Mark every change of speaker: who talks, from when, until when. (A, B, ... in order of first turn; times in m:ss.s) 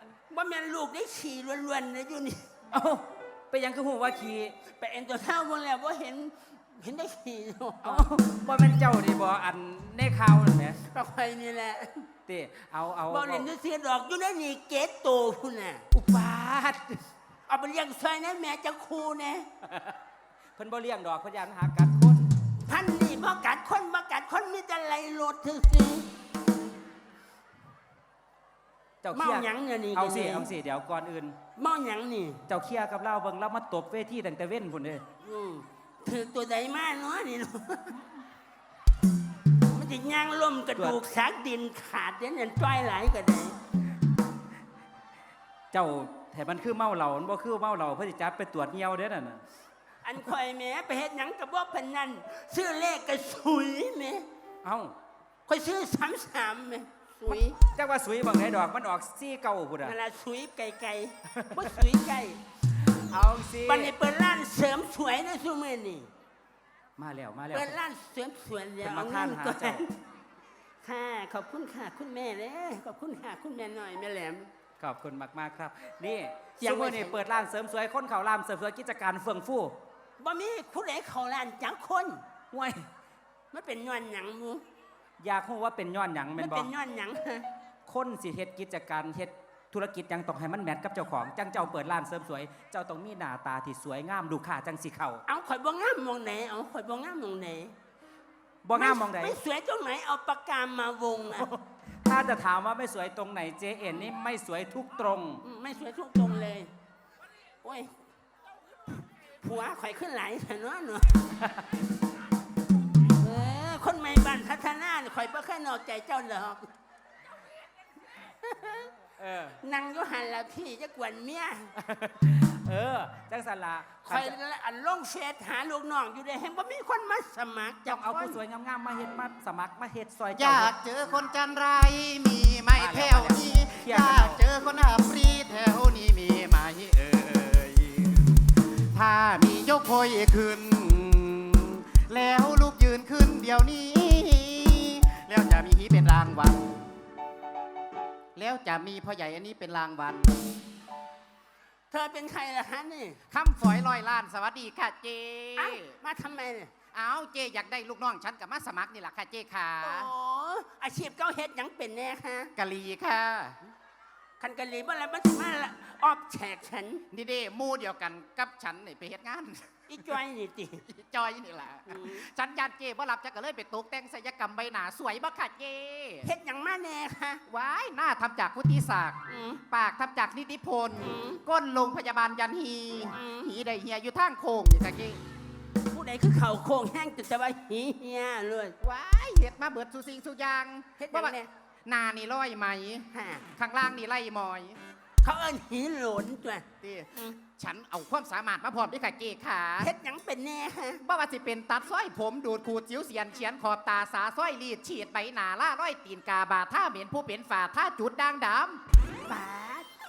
0:00.3-0:02.5 A
0:02.7-0:04.6 B
0:04.7-0:08.1 A
0:07.8-0:10.8 B
0:10.8-0:12.1 A
0:12.3-0:13.5 B
0:13.1-0:15.8 A
0:15.9-0:17.0 B
0:17.5-0:19.5 A
0:19.6-0:20.0 B
0:20.6-0:22.2 B
0:22.6-0:26.1 A
0:29.0-0:31.4 B
0:29.1-0:30.5 A
0:31.6-0:32.4 A
0:32.5-0:35.0 B
0:35.2-0:38.0 A
0:39.6-0:43.6 A
0:45.7-0:49.4 B
0:50.0-0:54.3 A
0:54.6-0:54.9 B
0:55.5-0:57.6 A
0:57.3-0:59.9 B
0:59.8-1:02.4 A
1:01.3-1:01.8 B
1:02.8-1:03.9 B
1:03.6-1:06.1 A
1:07.0-1:07.8 B
1:07.5-1:09.9 A
1:08.8-1:09.8 B
1:10.8-1:14.5 A
1:14.8-1:19.7 B
1:16.6-1:17.2 A
1:20.2-1:22.2 A
1:22.5-1:22.9 B
1:23.5-1:24.6 A
1:25.2-1:26.7 B
1:26.4-1:27.5 A
1:27.9-1:35.2 B
1:35.3-1:37.7 A
1:38.6-1:39.4 B
1:38.8-1:41.5 A
1:42.0-1:45.4 B
1:45.4-1:46.7 A
1:47.6-1:47.9 A
1:49.4-1:51.3 A
1:53.0-1:56.7 A
1:58.2-1:58.9 A
1:59.2-1:59.6 B
1:59.6-2:01.7 A
2:01.8-2:04.3 B
2:04.0-2:08.4 A
2:07.9-2:10.7 B
2:10.3-2:26.7 C
2:12.8-2:14.4 B
2:28.4-2:30.4 C
2:31.9-2:33.2 A
2:33.3-2:35.9 C
2:35.6-2:36.7 A
2:36.9-2:40.1 C
2:39.8-2:42.5 A
2:42.6-2:43.6 C
2:44.4-2:47.0 A
2:47.1-2:49.9 C
2:49.9-2:50.8 A
2:50.9-2:56.3 C
2:51.9-2:52.3 A
2:56.2-2:57.4 A
2:57.5-3:05.2 C
2:59.3-2:59.6 A
3:01.0-3:01.4 A
3:03.1-3:03.5 A
3:05.9-3:08.8 A
3:08.8-3:14.8 C
3:11.0-3:11.5 A
3:13.1-3:13.4 A
3:15.2-3:17.4 A
3:16.8-3:19.9 C
3:19.8-3:21.0 A
3:21.0-3:28.8 C
3:29.3-3:29.9 A